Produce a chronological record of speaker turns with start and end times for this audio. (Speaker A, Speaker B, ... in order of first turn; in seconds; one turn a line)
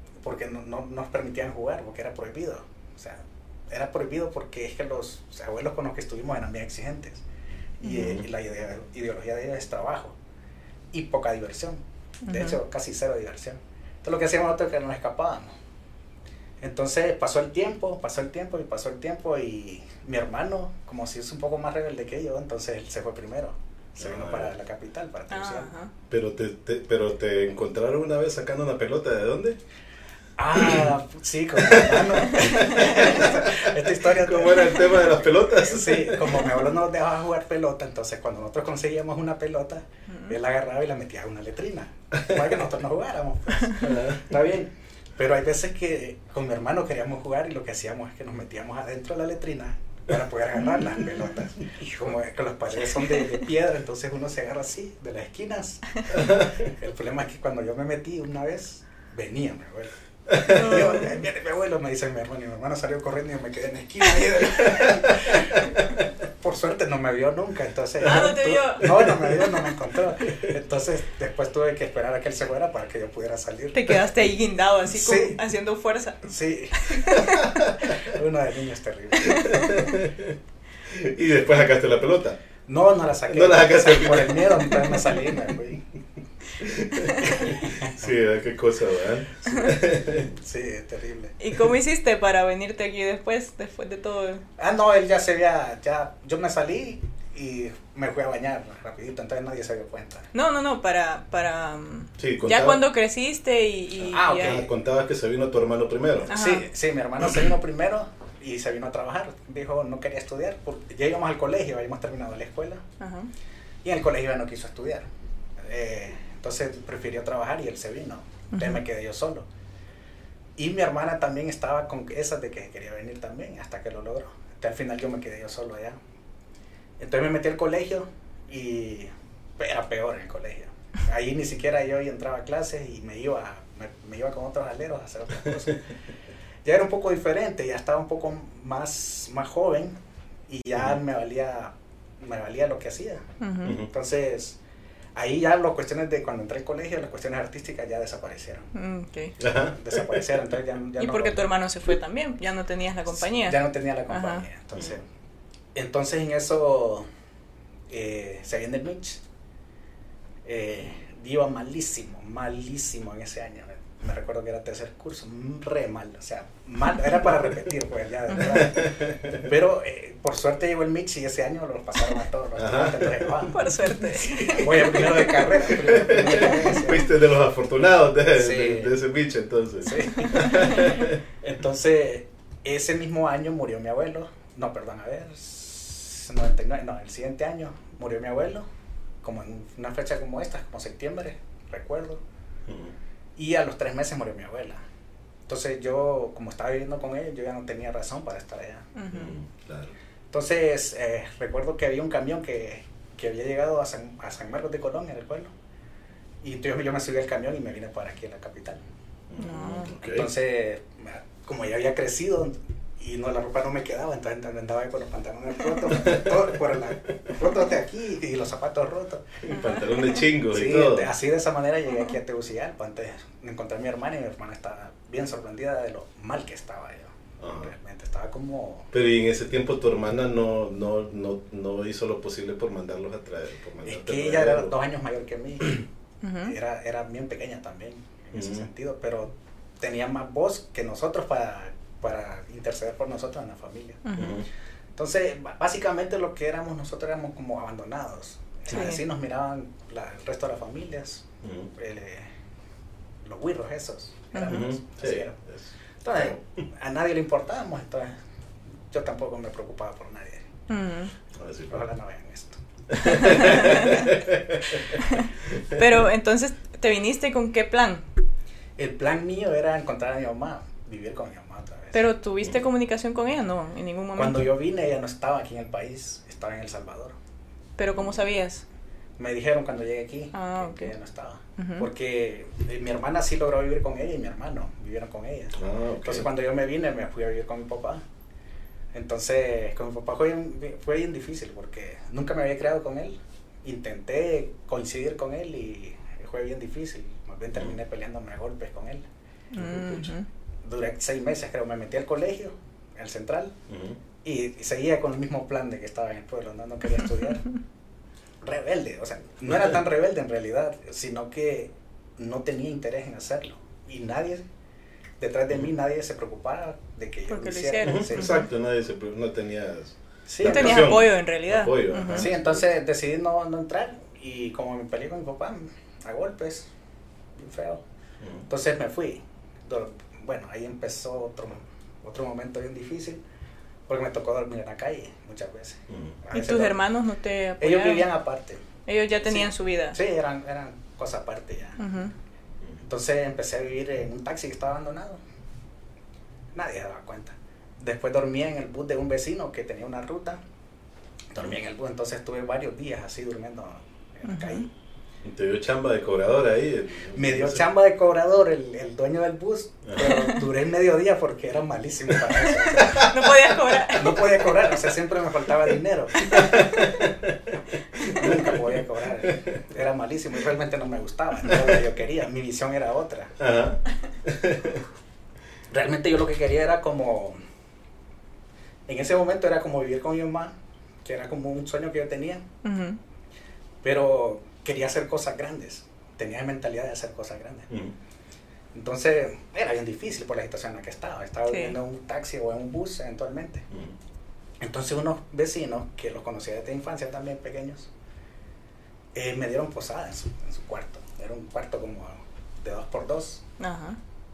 Speaker A: 0.2-7.2
Speaker A: 7.8-10.2
Speaker B: 7.9-8.3
Speaker A: 10.9-15.5
Speaker C: 12.3-12.6
Speaker A: 16.6-25.7
Speaker B: 24.0-24.5
Speaker C: 25.3-25.9
Speaker B: 26.1-29.6
Speaker A: 30.4-74.0
Speaker B: 30.6-30.9
Speaker B: 31.6-36.5
Speaker C: 32.4-33.2
Speaker C: 40.1-40.4
Speaker B: 43.8-44.3
Speaker C: 53.0-53.3
Speaker B: 56.2-56.6
Speaker B: 60.3-60.8
Speaker C: 60.4-61.1
Speaker B: 64.7-65.1
Speaker C: 68.0-69.5
Speaker B: 68.8-69.1
Speaker C: 73.7-76.3
Speaker A: 74.9-75.4
Speaker A: 76.3-79.5
Speaker C: 76.8-77.4
Speaker B: 77.1-77.9
Speaker C: 79.2-79.6
Speaker B: 79.3-82.4
Speaker A: 82.7-85.8
Speaker B: 83.3-84.8
Speaker B: 86.6-90.3
Speaker A: 87.2-88.1
Speaker A: 90.2-91.3
Speaker C: 91.4-94.4
Speaker A: 94.6-100.3
Speaker C: 100.3-104.6
Speaker B: 102.2-102.8
Speaker A: 104.0-104.7
Speaker B: 104.3-106.3
Speaker A: 106.3-112.8
Speaker C: 106.3-106.7
Speaker C: 113.0-113.3
Speaker A: 113.8-115.1
Speaker A: 115.7-119.5
Speaker C: 118.5-118.8
Speaker A: 120.6-126.0
Speaker A: 127.0-135.8
Speaker A: 136.7-140.0
Speaker A: 140.5-143.2
Speaker C: 143.4-143.8
Speaker B: 143.6-143.9
Speaker A: 143.9-144.6
Speaker A: 145.2-148.7
Speaker C: 148.7-149.3
Speaker B: 149.4-150.3
Speaker A: 149.6-151.5
Speaker C: 151.0-154.4
Speaker A: 153.2-155.0
Speaker A: 155.8-157.1
Speaker A: 157.9-159.2
Speaker A: 160.4-177.1
Speaker B: 168.4-169.5
Speaker B: 172.6-173.5
Speaker C: 173.5-175.7
Speaker B: 175.7-181.2
Speaker C: 176.3-176.7
Speaker A: 178.3-178.9
Speaker A: 179.9-180.9
Speaker C: 180.1-180.8
Speaker A: 181.4-188.7
Speaker A: 189.2-192.2
Speaker B: 192.7-192.9
Speaker A: 193.4-194.8
Speaker A: 195.5-198.9
Speaker C: 199.0-199.3
Speaker B: 199.1-199.9
Speaker A: 200.3-205.5
Speaker A: 206.4-208.8
Speaker B: 209.3-210.3
Speaker C: 209.4-209.9
Speaker A: 210.0-219.4
Speaker B: 215.9-216.4
Speaker B: 219.4-221.1
Speaker C: 219.5-220.2
Speaker A: 220.5-228.9
Speaker B: 227.4-227.7
Speaker B: 228.9-234.7
Speaker A: 233.8-235.9
Speaker C: 236.2-236.6
Speaker A: 236.4-244.0
Speaker B: 238.3-238.7
Speaker C: 244.1-244.4
Speaker B: 244.2-244.5
Speaker A: 245.0-251.3
Speaker C: 248.7-249.0
Speaker B: 251.4-251.7
Speaker A: 251.8-252.3
Speaker A: 253.2-255.4
Speaker C: 254.3-254.7
Speaker B: 254.5-256.4
Speaker A: 256.0-258.1
Speaker A: 258.9-260.5
Speaker C: 260.7-261.1
Speaker B: 261.4-261.9
Speaker A: 261.7-262.6
Speaker B: 262.9-264.8
Speaker C: 263.0-264.1
Speaker A: 263.2-264.1
Speaker C: 265.1-268.1
Speaker B: 265.5-266.0
Speaker A: 268.8-272.0
Speaker C: 271.9-274.5
Speaker A: 274.2-277.1
Speaker C: 277.8-278.6
Speaker A: 279.2-288.0
Speaker C: 280.3-280.9
Speaker C: 281.6-281.9
Speaker B: 285.6-286.3
Speaker A: 288.9-299.1
Speaker C: 299.5-300.3
Speaker B: 299.6-300.1
Speaker A: 300.6-303.6
Speaker B: 303.7-304.0
Speaker A: 304.2-307.4
Speaker A: 308.4-314.4
Speaker A: 315.2-318.4
Speaker C: 317.3-318.5
Speaker B: 317.8-322.6
Speaker A: 320.3-321.0
Speaker C: 320.4-322.3
Speaker A: 322.1-326.7
Speaker A: 327.4-327.8
Speaker B: 328.2-328.5
Speaker A: 328.5-333.2
Speaker A: 333.9-336.8
Speaker B: 335.9-336.2
Speaker C: 336.3-338.1
Speaker A: 337.6-338.6
Speaker C: 338.9-340.0
Speaker A: 339.2-341.9
Speaker C: 341.8-342.1
Speaker A: 342.8-345.2
Speaker A: 346.5-350.4
Speaker A: 351.3-354.7
Speaker C: 354.3-354.7
Speaker B: 355.2-357.6
Speaker A: 357.1-363.1
Speaker B: 359.9-360.1
Speaker C: 360.0-360.4
Speaker B: 362.1-363.8
Speaker C: 362.9-364.2
Speaker A: 363.9-366.6
Speaker B: 366.3-367.4
Speaker B: 368.0-369.3
Speaker A: 368.0-373.3
Speaker B: 371.5-371.8
Speaker B: 373.4-374.8
Speaker A: 375.7-377.4
Speaker A: 378.9-380.5
Speaker A: 381.1-382.4
Speaker C: 382.6-383.0
Speaker A: 383.8-387.7
Speaker A: 388.7-393.7
Speaker C: 391.5-391.8
Speaker A: 394.6-397.9
Speaker A: 399.1-403.4
Speaker C: 403.6-404.0